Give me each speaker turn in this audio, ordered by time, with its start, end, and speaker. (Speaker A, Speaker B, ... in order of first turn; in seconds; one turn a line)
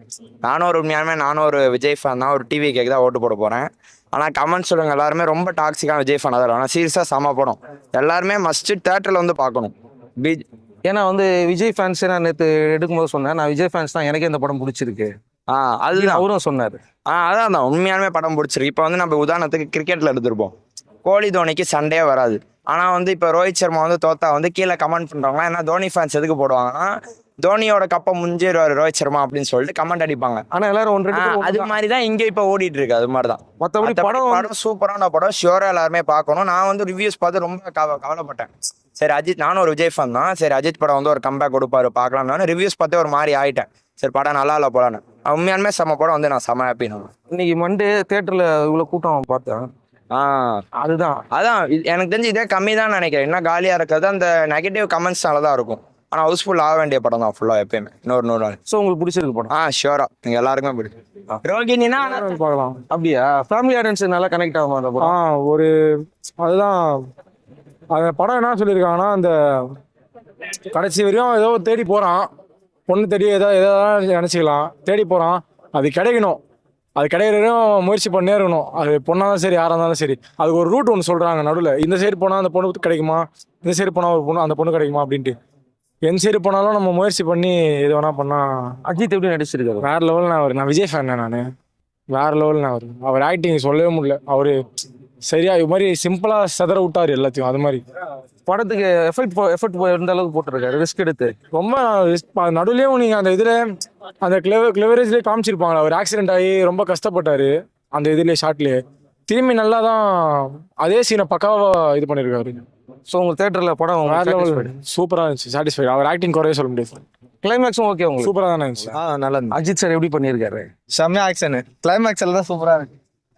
Speaker A: 0.4-10.4
Speaker B: 10.8-15.1
Speaker A: 15.5-16.2
Speaker B: 15.9-16.8
Speaker A: 17.1-20.5
Speaker A: 21.0-26.9
Speaker A: 27.4-30.4
Speaker B: 30.5-31.7
Speaker A: 31.1-47.1
Speaker B: 33.6-34.5
Speaker B: 47.3-49.7
Speaker A: 50.1-50.6
Speaker B: 50.8-51.2
Speaker A: 51.3-58.6
Speaker B: 58.7-59.5
Speaker A: 59.5-60.9
Speaker A: 61.4-62.3
Speaker C: 62.2-62.8
Speaker B: 62.9-65.1
Speaker C: 65.0-65.7
Speaker C: 66.4-67.0
Speaker C: 67.9-69.7
Speaker C: 70.7-72.3
Speaker C: 72.9-76.4
Speaker C: 77.0-85.3
Speaker C: 86.0-88.8
Speaker B: 88.9-89.9
Speaker C: 89.8-91.4
Speaker C: 92.1-94.6
Speaker C: 95.2-97.8
Speaker B: 98.5-101.3
Speaker C: 101.5-103.6
Speaker C: 104.2-112.6
Speaker B: 113.1-114.7
Speaker C: 114.0-117.0
Speaker B: 117.4-120.7
Speaker C: 118.2-118.9
Speaker D: 119.0-119.5
Speaker D: 120.9-122.9